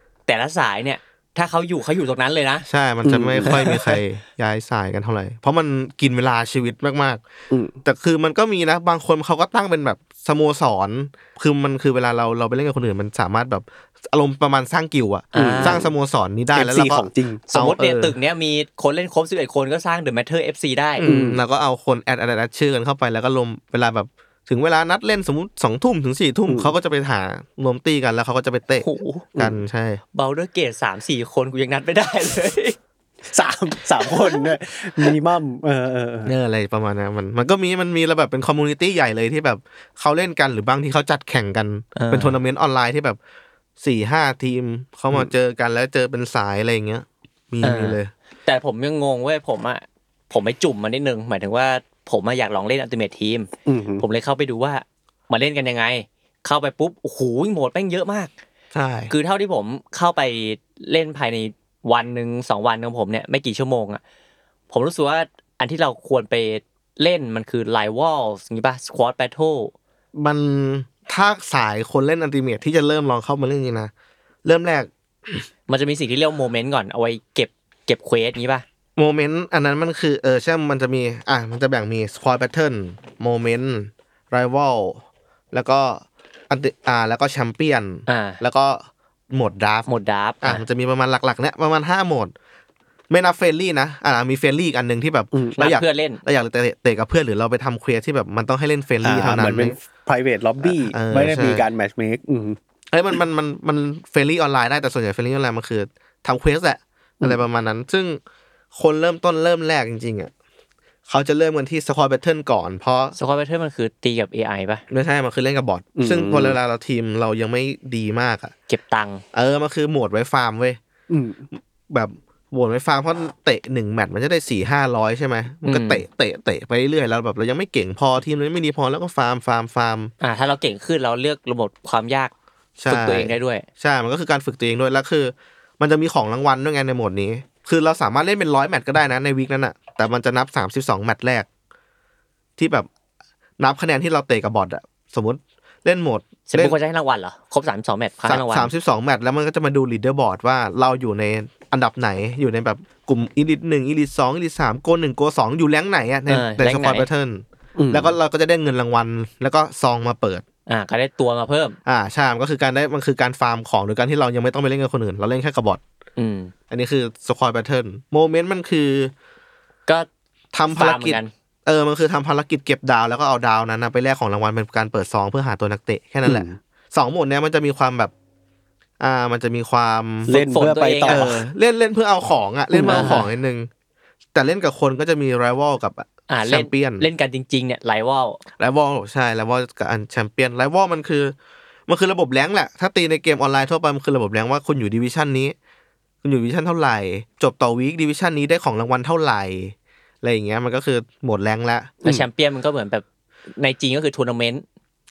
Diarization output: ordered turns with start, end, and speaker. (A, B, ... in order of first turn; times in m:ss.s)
0:00.3-0:02.6 A
0:02.7-0:07.2 B
0:03.0-0:04.0 C
0:07.8-0:18.1 B
0:15.3-0:15.8 A
0:15.3-0:15.9 C
0:16.5-0:17.4 C
0:17.5-0:21.0 A
0:21.0-0:28.8 B
0:21.0-0:21.4 C
0:26.5-0:26.7 C
0:28.8-0:29.2 A
0:29.3-0:29.6 C
0:29.4-0:30.0 B
0:30.1-0:32.8 A
0:33.3-0:36.3 C
0:36.2-0:43.2 B
0:42.0-0:42.4 A
0:43.8-0:48.1 B
0:47.6-0:58.3 A
0:53.7-0:54.0 C
0:58.7-0:59.1 B
0:59.1-1:04.0 A
1:04.7-1:09.7 A
1:10.1-1:13.9 B
1:14.4-1:15.4 B
1:15.7-1:18.6 A
1:19.0-1:29.9 B
1:28.1-1:28.4 A
1:29.9-1:30.6 A
1:30.4-1:32.3 B
1:33.1-1:39.8 B
1:35.3-1:35.6 C
1:35.6-1:36.2 A
1:39.0-1:42.6 C
1:40.6-1:41.7 B
1:42.9-1:48.2 B
1:48.7-1:50.3 B
1:51.1-1:53.2 B
1:53.2-1:54.8 A
1:54.9-1:58.5 B
1:56.0-1:56.6 C
1:58.7-1:59.2 A
1:59.3-2:00.8 B
2:01.1-2:01.5 C
2:01.9-2:10.1 B
2:05.6-2:06.0 A
2:10.2-2:12.3 A
2:12.8-2:21.5 B
2:12.9-2:13.6 A
2:22.6-2:22.9 B
2:23.6-2:26.8 B
2:26.5-2:28.7 A
2:28.3-2:40.4 B
2:36.3-2:37.1 A
2:37.8-2:38.1 C
2:40.7-2:41.8 A
2:41.8-2:45.8 B
2:46.2-2:46.5 A
2:46.7-2:49.1 B
2:50.5-2:58.1 B
2:50.7-2:51.3 A
2:56.2-2:56.6 C
2:59.0-3:00.3 B
3:00.3-3:01.4 C
3:00.3-3:01.3 A
3:01.1-3:03.7 B
3:02.7-3:03.2 C
3:02.9-3:03.2 A
3:04.3-3:07.0 B
3:06.3-3:08.4 A
3:08.6-3:11.3 B
3:11.9-3:15.5 B
3:16.2-3:21.9 B
3:22.0-3:23.0 A
3:23.6-3:24.6 A